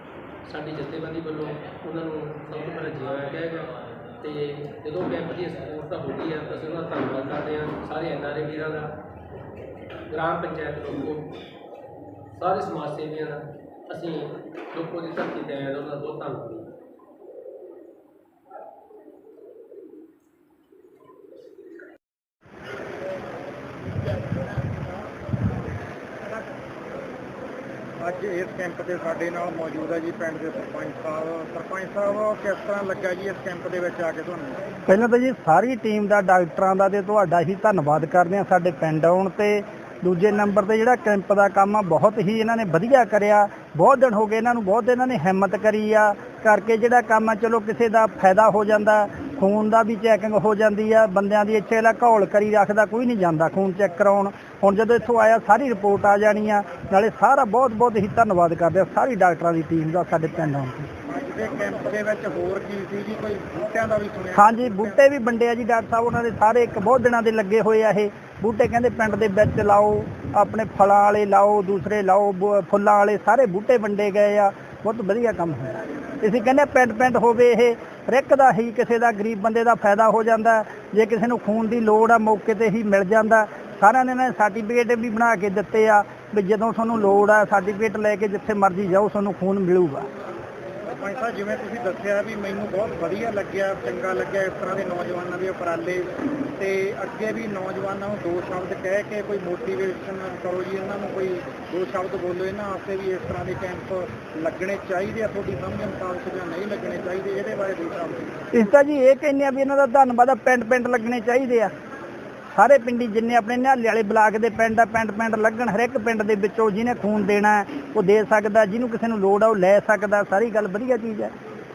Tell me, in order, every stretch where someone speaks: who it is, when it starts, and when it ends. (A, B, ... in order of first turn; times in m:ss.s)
0:00.4-0:08.9 A
0:10.1-0:11.3 A
0:12.4-0:16.7 A
0:28.0-0:34.6 B
0:34.9-1:00.9 C
1:01.1-1:05.0 B
1:04.4-1:30.1 C
1:30.9-1:48.4 B
1:48.5-1:51.7 C
1:52.6-2:01.3 C